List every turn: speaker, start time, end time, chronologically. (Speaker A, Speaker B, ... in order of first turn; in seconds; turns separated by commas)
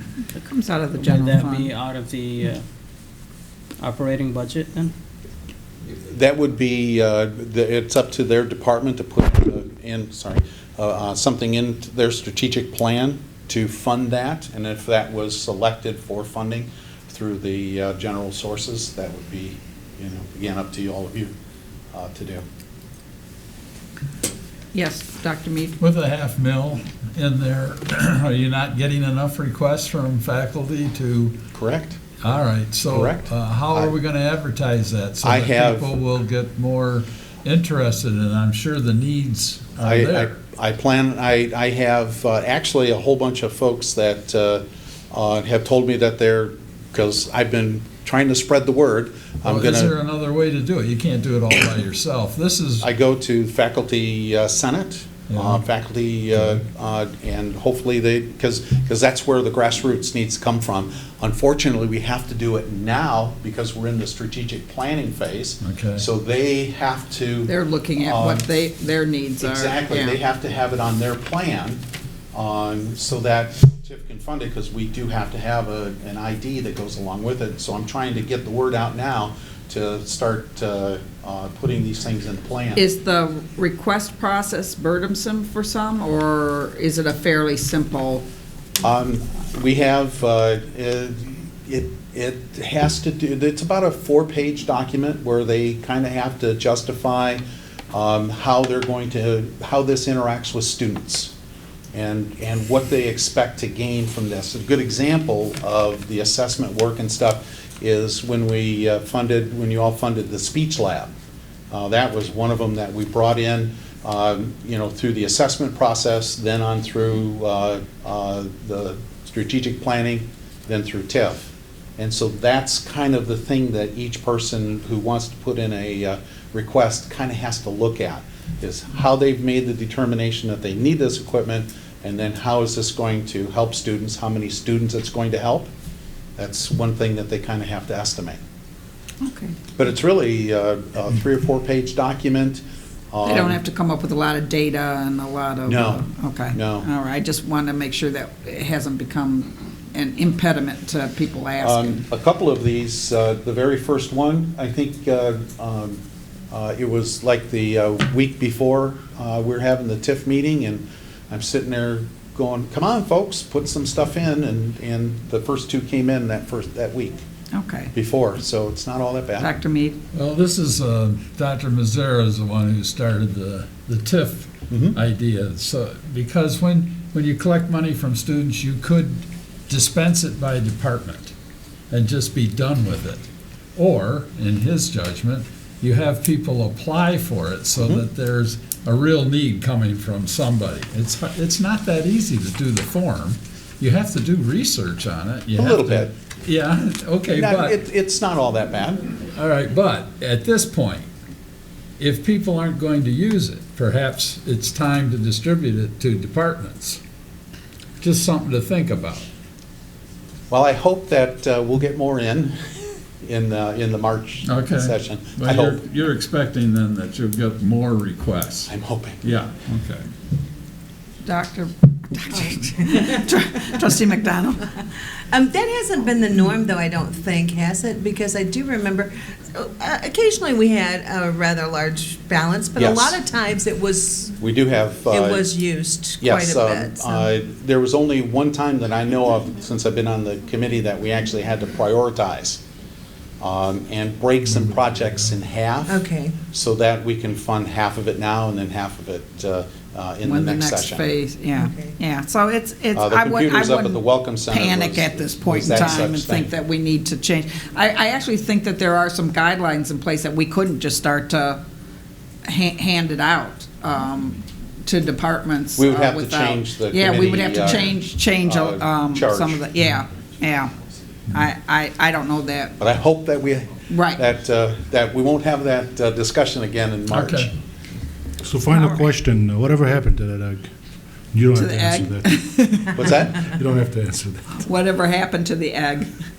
Speaker A: 0.3-1.7, Speaker B: 1.0-2.6, Speaker B: 3.8-4.9, Speaker C: 6.0-21.3, Speaker C: 21.9-22.4, Speaker A: 24.7-25.8, Speaker D: 25.8-31.4, Speaker C: 31.5-32.0, Speaker D: 32.2-40.3, Speaker C: 32.9-33.9, Speaker C: 35.2-35.9, Speaker C: 39.8-49.9, Speaker D: 49.5-52.9, Speaker C: 52.8-68.7, Speaker D: 55.3-55.6, Speaker D: 65.6-66.1, Speaker A: 67.5-70.2, Speaker C: 69.4-71.8, Speaker C: 72.3-82.8, Speaker A: 82.8-88.2, Speaker C: 88.8-101.3, Speaker C: 101.9-111.1, Speaker C: 111.7-135.7, Speaker C: 136.3-138.4, Speaker A: 139.2-139.6, Speaker C: 139.8-143.6, Speaker A: 143.2-152.0, Speaker C: 145.7-146.9, Speaker C: 151.6-167.2, Speaker A: 167.5-167.9, Speaker C: 167.9-169.5, Speaker A: 169.4-170.0, Speaker D: 170.1-181.3, Speaker C: 174.7-175.0, Speaker D: 181.9-197.8, Speaker C: 187.8-188.0, Speaker C: 195.5-196.1, Speaker C: 197.3-199.1, Speaker D: 199.3-201.1, Speaker D: 202.0-207.0, Speaker D: 208.0-209.2, Speaker C: 210.5-212.5, Speaker C: 213.2-215.8, Speaker D: 214.4-220.1, Speaker C: 218.7-219.2, Speaker A: 221.2-224.7, Speaker E: 222.5-223.0, Speaker E: 225.3-234.4, Speaker C: 232.8-233.2, Speaker C: 234.4-235.5, Speaker E: 235.1-237.2, Speaker C: 236.2-242.6, Speaker C: 243.4-251.0, Speaker E: 245.9-246.4, Speaker A: 250.2-261.6, Speaker E: 251.5-251.9, Speaker C: 252.9-256.5, Speaker A: 262.5-270.7, Speaker C: 265.8-269.6, Speaker A: 271.3-272.8, Speaker C: 272.8-277.5, Speaker A: 273.9-274.2, Speaker D: 277.1-277.5, Speaker F: 278.4-280.7, Speaker A: 278.7-279.0, Speaker F: 281.3-282.4, Speaker A: 281.6-283.2, Speaker C: 282.9-283.4, Speaker F: 283.4-284.5, Speaker A: 284.6-286.1